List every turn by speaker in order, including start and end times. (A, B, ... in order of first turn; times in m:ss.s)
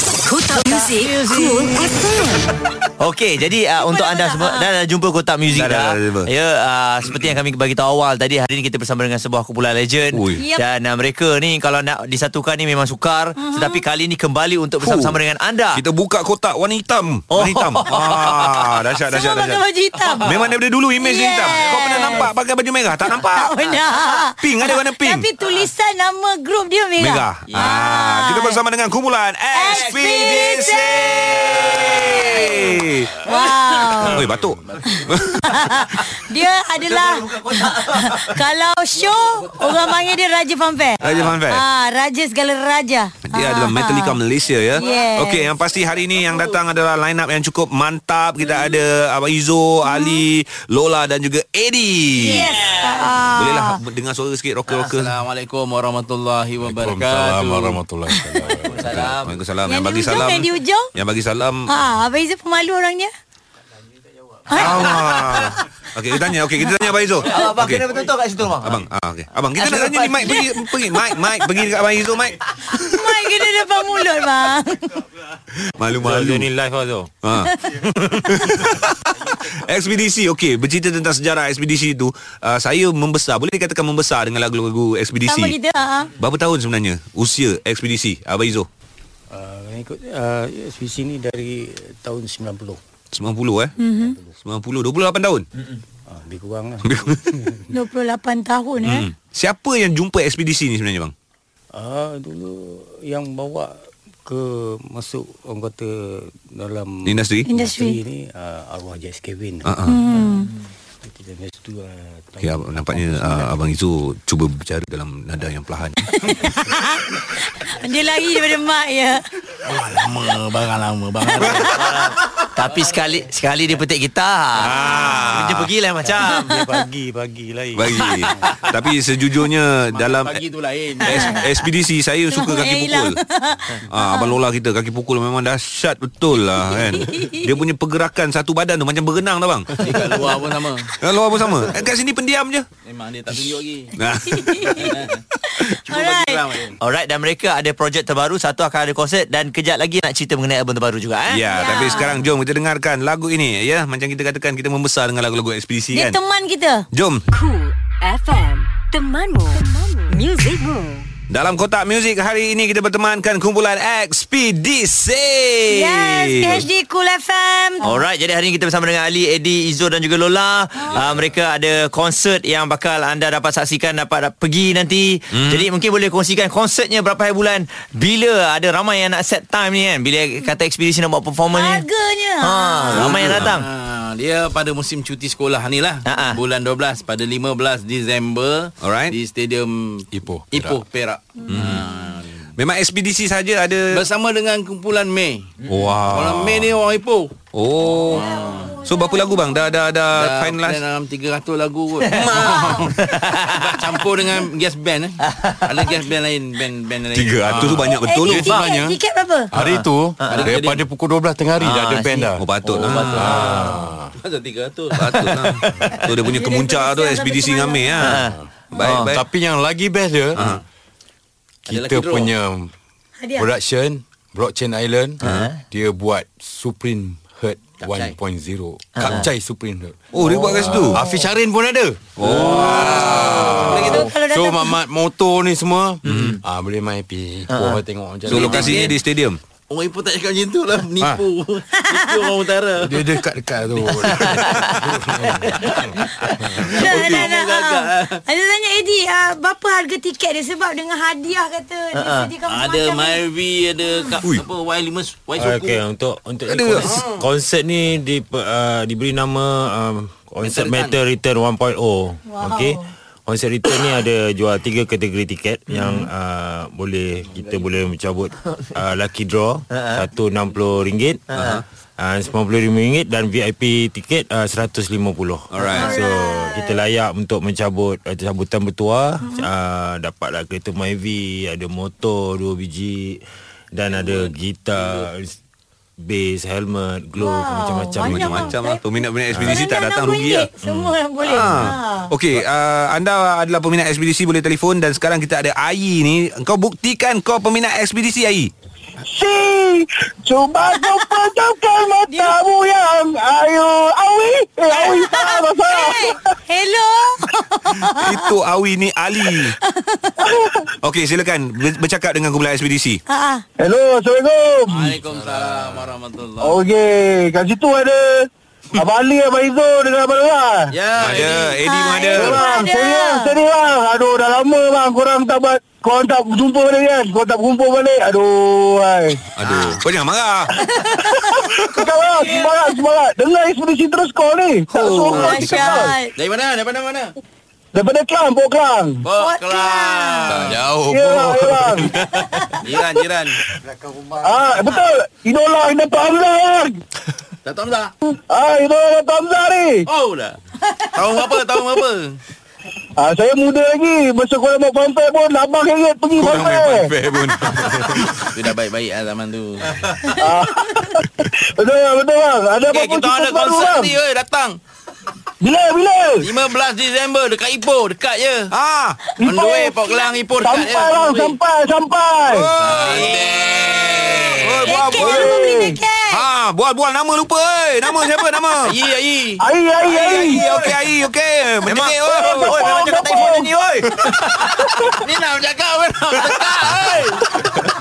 0:00.2-0:02.5 A
0:00.5-0:01.8 B
0:03.0-0:15.8 B
0:03.8-0:04.7 C
0:05.5-0:06.3 D
0:07.1-0:07.3 D
0:10.1-0:10.4 D
0:10.3-0:10.6 C
0:13.4-0:13.8 C
0:14.8-0:15.2 D
0:15.7-0:19.6 D
0:17.3-0:18.6 B
0:19.1-0:20.3 C
0:20.2-0:23.5 D
0:21.0-0:22.3 C
0:23.0-0:28.6 C
0:24.4-0:25.3 D
0:27.0-0:33.3 D
0:29.5-0:31.2 C
0:31.4-0:32.6 B
0:32.0-0:34.3 C
0:33.9-0:35.4 D
0:34.6-0:35.2 E
0:34.8-0:44.2 C
0:36.8-0:38.4 B
0:41.0-0:41.6 D
0:43.2-0:52.5 D
0:44.7-0:45.5 C
0:49.8-0:50.2 C
0:52.2-0:53.8 C
0:52.2-0:53.2 B
0:53.3-0:55.1 D
0:54.7-0:57.8 E
0:56.6-0:59.1 F
0:58.1-0:58.5 C
0:58.7-0:59.4 B
0:58.8-1:01.7 D
0:59.6-1:00.9 C
1:01.7-1:03.1 C
1:04.5-1:05.6 C
1:04.5-1:07.9 D
1:06.1-1:06.7 C
1:07.2-1:08.8 B
1:08.6-1:13.1 D
1:09.6-1:10.5 B
1:10.2-1:11.1 C
1:12.7-1:15.0 C
1:15.6-1:16.5 D
1:16.0-1:17.1 G
1:17.2-1:25.6 D
1:17.3-1:17.8 C
1:25.2-1:26.1 C
1:26.2-1:28.7 D
1:29.3-1:32.8 H
1:33.1-1:33.7 D
1:33.8-1:34.2 C
1:34.4-1:35.4 D
1:36.1-1:37.6 H
1:36.8-1:37.4 D
1:37.7-1:39.1 C
1:38.8-1:41.1 D
1:41.7-1:43.7 H
1:44.2-1:49.9 H
1:47.0-1:47.5 D
1:47.5-1:48.0 C
1:49.6-1:50.0 D
1:49.8-1:50.5 C
1:51.0-1:53.5 H
1:52.4-1:56.0 D
1:56.1-1:59.2 C
1:59.6-2:02.0 E
2:01.4-2:06.5 B
2:04.6-2:05.7 D
2:04.7-2:05.4 C
2:06.0-2:08.7 H
2:07.7-2:10.4 D
2:09.9-2:11.4 E
2:11.0-2:13.2 D
2:11.0-2:11.6 C
2:12.3-2:14.4 C
2:13.9-2:20.0 D
2:16.5-2:17.6 C
2:19.8-2:20.9 E
2:21.0-2:22.6 D
2:22.8-2:23.9 E
2:23.9-2:24.9 D
2:24.2-2:26.5 C
2:24.7-2:25.2 E
2:25.8-2:26.8 E
2:26.8-2:32.0 B
2:31.3-2:36.2 D
2:31.5-2:32.2 C
2:35.9-2:36.8 C
2:36.9-2:37.2 D
2:37.3-2:41.1 A
2:41.3-2:46.6 D
2:45.7-2:48.0 C
2:47.8-3:01.8 B
2:55.3-2:55.7 D
3:01.5-3:03.2 C
3:02.4-3:03.7 B
3:02.9-3:03.5 D
3:03.2-3:12.5 E
3:06.0-3:06.4 B
3:08.8-3:09.1 D
3:10.1-3:10.8 F
3:11.5-3:11.8 D
3:12.6-3:14.0 D
3:13.9-3:15.5 E
3:15.6-3:16.8 D
3:16.1-3:17.3 E
3:17.5-3:18.2 D
3:17.8-3:19.9 C
3:18.1-3:18.8 E
3:18.8-3:20.8 D
3:20.1-3:22.7 E
3:22.0-3:24.1 B
3:22.1-3:22.9 D
3:22.2-3:22.8 C
3:23.4-3:27.9 E
3:25.2-3:25.9 B
3:27.1-3:28.6 D
3:27.4-3:29.0 F
3:28.0-3:29.5 C
3:29.5-3:34.1 F
3:30.2-3:30.5 B
3:30.3-3:30.8 E
3:31.6-3:32.3 B
3:32.4-3:33.5 D
3:32.6-3:35.3 E
3:32.9-3:33.7 B
3:35.0-3:38.2 D
3:35.0-3:35.9 B
3:36.2-3:38.2 C
3:38.0-3:39.1 B
3:38.2-3:40.4 F
3:38.7-3:39.2 D
3:40.4-3:40.6 D
3:41.7-3:42.3 E
3:41.7-3:42.7 F
3:43.2-3:43.5 C
3:43.4-3:58.9 F
3:45.2-3:45.5 D
3:45.2-3:45.6 B
3:47.8-3:48.2 E
3:49.0-3:49.3 B
3:50.1-3:51.0 D
3:52.2-3:53.8 D
3:52.7-3:54.8 C
3:53.0-3:54.1 E
3:56.0-3:56.4 B
3:56.1-3:56.4 D
3:57.5-3:58.9 B
3:58.3-3:59.4 D
3:58.3-3:59.0 E
3:59.7-4:03.1 E
4:01.8-4:02.3 C
4:02.8-4:05.7 F
4:04.0-4:04.9 B
4:06.6-4:08.2 E
4:06.6-4:13.2 C
4:06.9-4:07.3 D
4:11.9-4:12.3 B
4:12.4-4:15.8 E
4:13.8-4:14.1 C
4:15.4-4:31.4 G
4:16.5-4:16.9 D
4:16.8-4:17.2 E
4:20.4-4:21.0 E
4:22.3-4:22.9 C
4:25.7-4:26.0 B
4:29.7-4:30.0 B
4:31.3-4:31.6 B
4:31.3-4:31.6 D
4:32.0-4:45.4 G
4:35.5-4:35.9 D
4:35.6-4:36.8 C
4:43.9-4:45.1 E
4:46.0-4:48.6 G
4:47.2-4:52.1 C
4:48.0-4:58.5 D
4:59.1-5:06.2 I
5:00.7-5:01.3 C
5:02.1-5:02.4 C
5:04.7-5:08.4 C
5:07.8-5:09.5 D
5:09.2-5:10.3 C
5:10.2-5:10.7 I
5:10.8-5:13.0 D
5:13.1-5:13.4 C
5:13.6-5:15.0 I
5:14.7-5:16.6 E
5:15.1-5:15.9 F
5:16.4-5:20.7 I
5:20.7-5:21.6 E
5:21.0-5:22.4 D
5:21.6-5:23.4 C
5:22.1-5:29.2 I
5:29.4-5:30.5 D
5:29.4-5:29.8 E
5:30.6-5:31.4 C
5:31.7-5:35.9 I
5:32.3-5:32.8 C
5:34.7-5:35.8 D
5:35.1-5:36.1 C
5:36.2-5:37.1 E
5:37.7-5:39.0 I
5:39.0-5:40.6 E
5:39.2-5:40.4 C
5:40.3-5:41.9 F
5:40.9-5:42.0 I
5:42.2-5:42.6 C
5:42.6-5:43.4 E
5:43.7-5:44.4 H
5:44.2-5:46.8 I
5:47.4-5:47.9 E
5:48.1-5:49.8 I
5:49.9-5:50.4 E
5:50.9-5:52.2 E
5:53.0-5:56.9 I
5:56.2-5:58.3 D
5:58.3-6:00.0 E
6:00.2-6:03.9 I
6:02.7-6:04.6 E
6:05.4-6:06.2 I
6:06.2-6:08.5 E
6:08.5-6:09.0 D
6:09.2-6:09.8 I
6:09.2-6:11.4 E
6:09.8-6:10.2 C
6:10.4-6:12.5 I
6:12.3-6:15.4 D
6:12.6-6:14.8 E
6:14.6-6:16.2 C
6:15.0-6:15.8 I
6:16.1-6:18.7 D
6:18.6-6:19.4 E
6:19.4-6:20.5 I
6:19.9-6:22.6 D
6:21.6-6:24.6 B
6:22.1-6:23.5 I
6:25.0-6:27.3 E